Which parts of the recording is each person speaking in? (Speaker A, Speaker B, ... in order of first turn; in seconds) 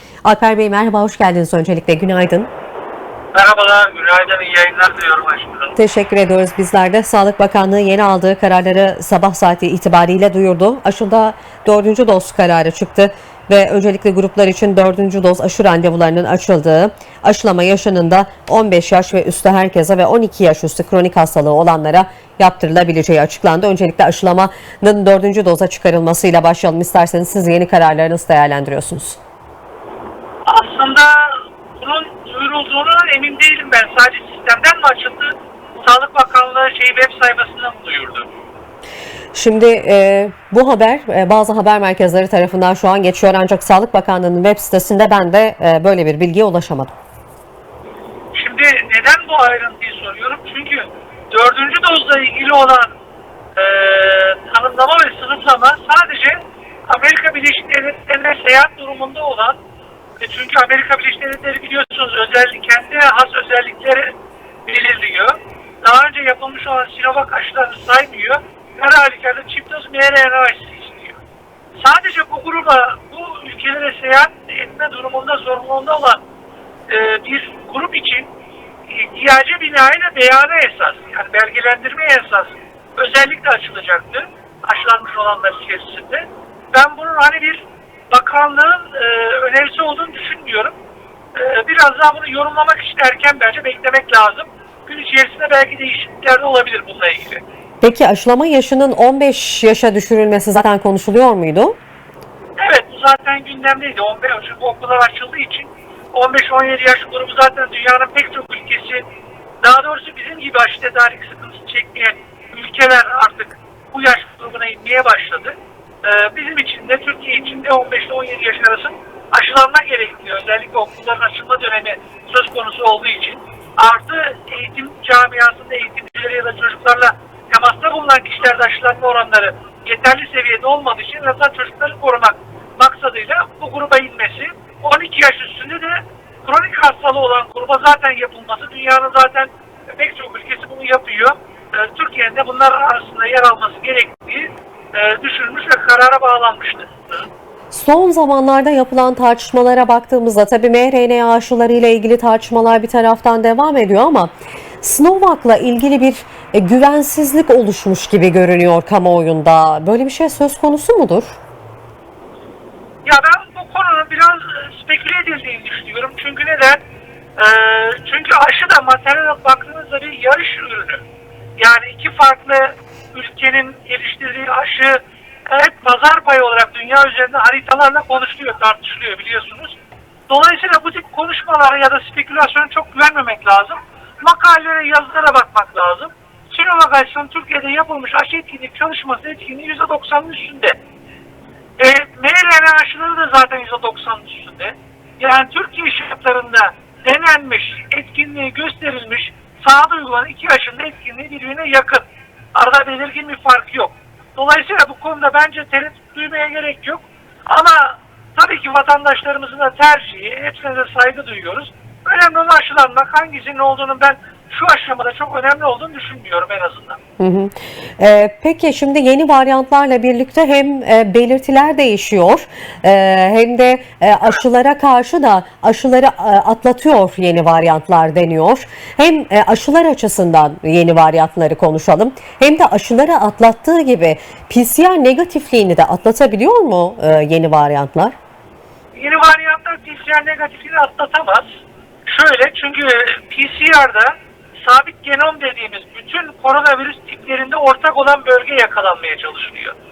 Speaker A: 0.2-2.5, 5.8-29.2, 39.3-47.0, 97.8-101.8, 147.7-161.4, 217.2-238.2
Speaker B: 3.3-5.8, 30.4-38.3, 48.3-52.9, 53.5-59.6, 60.2-64.1, 64.7-71.2, 71.8-76.2, 76.9-78.3, 78.9-90.8, 91.3-97.4, 102.6-109.0, 109.6-147.3, 163.1-166.8, 167.4-171.0, 171.6-179.8, 180.3-190.8, 191.8-217.0, 238.9-241.5, 242.1-249.8